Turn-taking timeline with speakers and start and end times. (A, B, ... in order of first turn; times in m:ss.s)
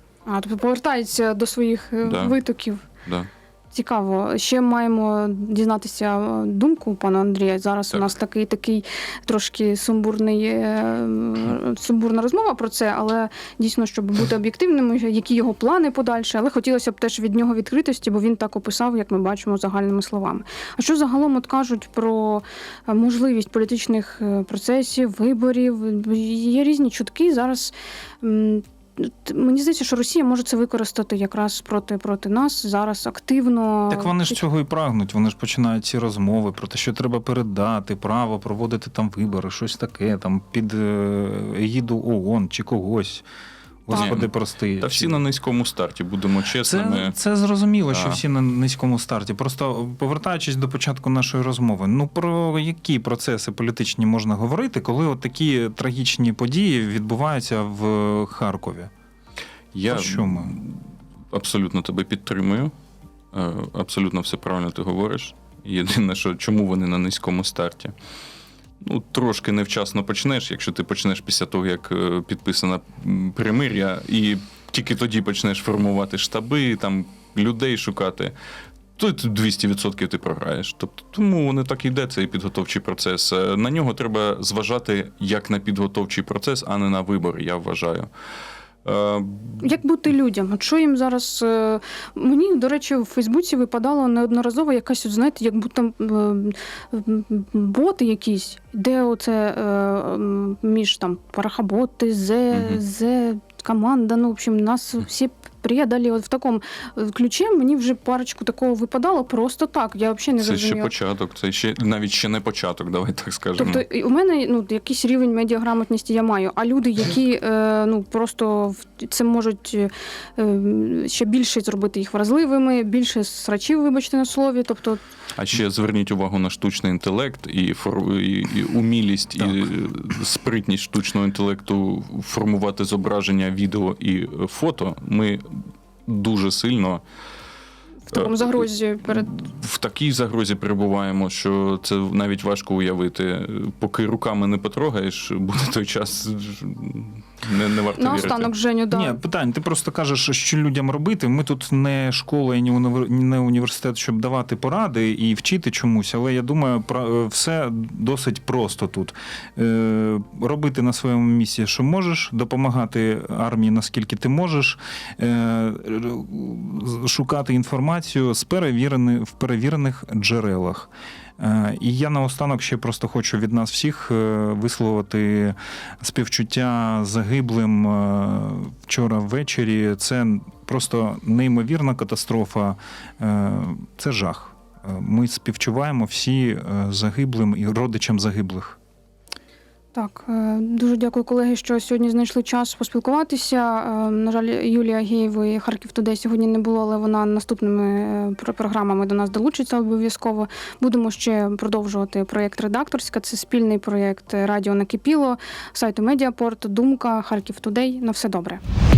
0:00.3-0:02.8 A
0:02.0-0:02.4 B
0:03.0-0:03.3 B
0:03.7-0:34.4 A
0:33.9-0:43.2 C
0:43.8-0:45.2 C
0:43.9-0:44.2 A
0:43.9-0:47.1 B
0:46.6-0:58.9 C
0:47.9-0:48.2 B
0:59.7-1:02.7 B
0:59.9-1:00.6 C
1:03.3-1:07.9 B
1:08.8-1:18.3 B
1:19.0-1:28.1 B
1:28.8-1:29.7 B
1:29.6-1:50.9 A
1:42.5-1:42.8 B
1:50.4-1:53.8 B
1:53.6-2:05.0 A
2:05.3-2:17.0 B
2:18.1-2:19.3 A
2:18.1-2:28.5 B
2:27.9-2:29.2 A
2:28.9-3:08.8 C
3:09.9-3:28.6 A